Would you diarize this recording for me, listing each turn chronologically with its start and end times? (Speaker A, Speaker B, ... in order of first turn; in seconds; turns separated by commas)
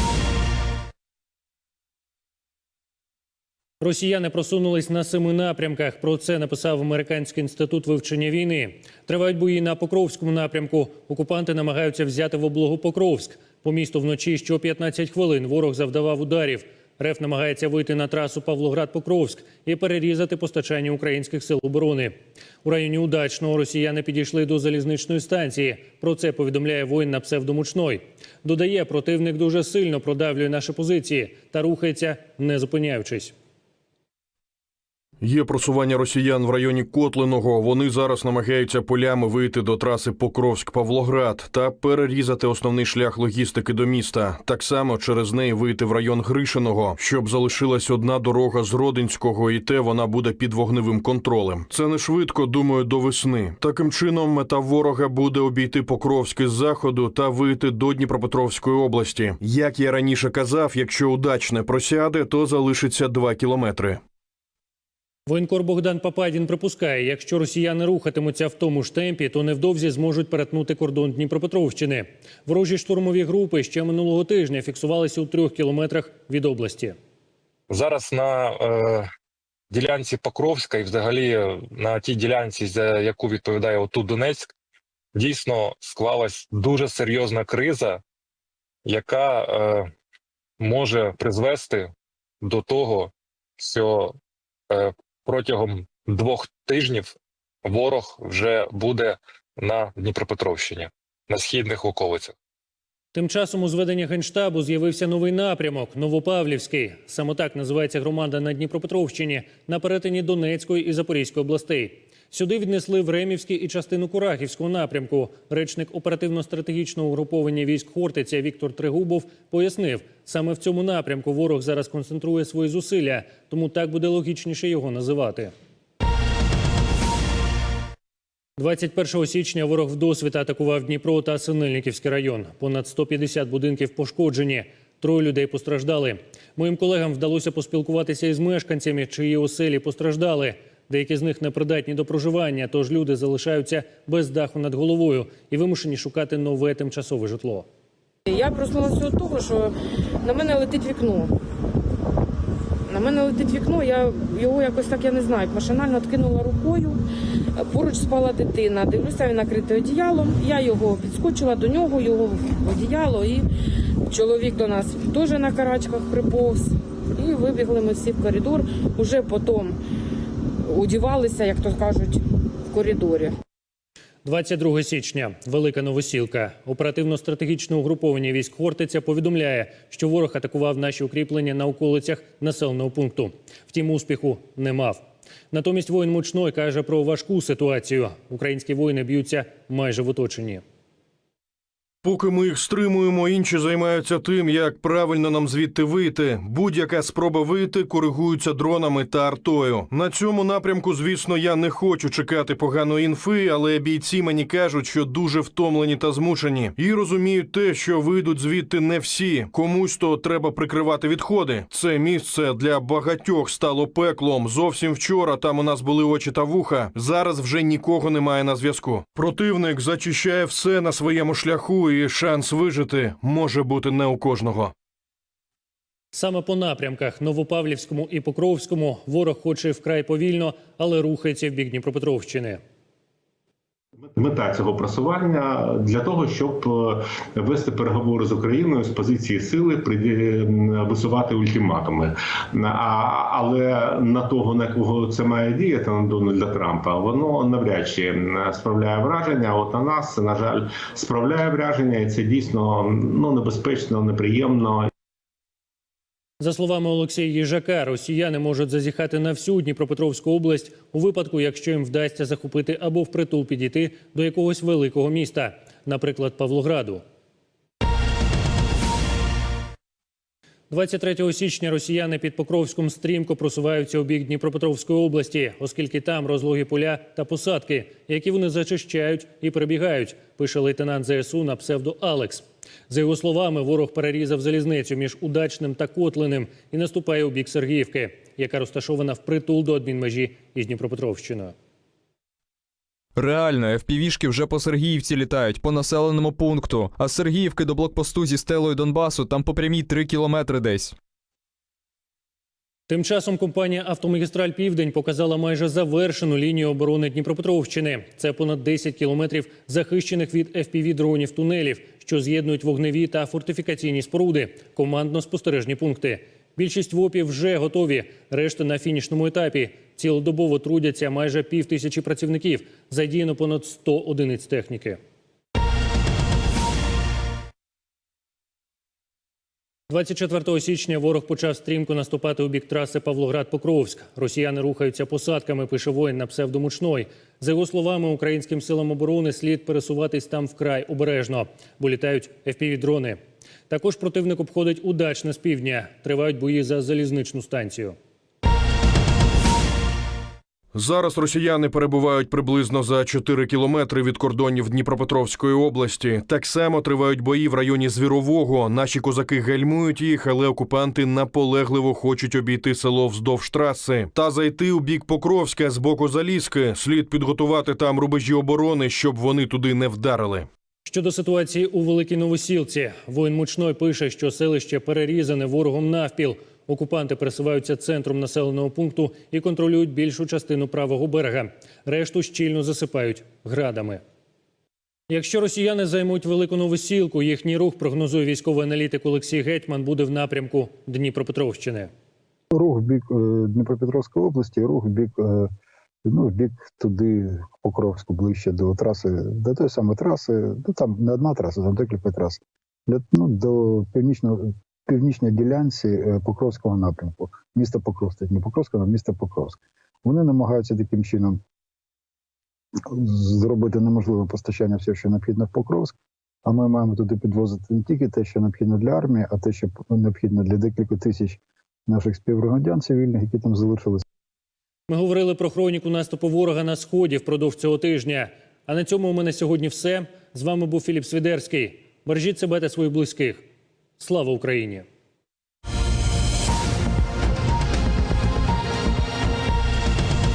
Speaker A: 3.8-33.3, Speaker B: 35.2-64.0, Speaker A: 65.3-77.0, Speaker C: 77.7-79.1, Speaker C: 79.7-84.5, Speaker C: 85.2-88.0, Speaker C: 88.9-89.9, Speaker C: 90.6-91.9, Speaker C: 92.4-94.2, Speaker C: 94.7-102.3, Speaker A: 103.1-125.5, Speaker A: 128.6-147.7, Speaker D: 148.3-151.4, Speaker D: 152.9-157.0, Speaker D: 157.6-169.8, Speaker D: 170.6-173.4, Speaker A: 174.2-190.6, Speaker B: 192.0-224.7, Speaker A: 226.1-232.6, Speaker E: 234.1-254.9, Speaker A: 256.4-267.0, Speaker A: 270.7-291.6, Speaker F: 293.2-301.0, Speaker A: 302.9-325.0, Speaker A: 329.9-348.0, Speaker B: 350.7-370.5, Speaker A: 370.9-384.0, Speaker A: 385.1-391.9, Speaker G: 392.5-395.5, Speaker G: 396.1-411.4, Speaker G: 412.9-415.9, Speaker G: 416.5-424.0, Speaker A: 424.9-433.5, Speaker A: 434.0-434.9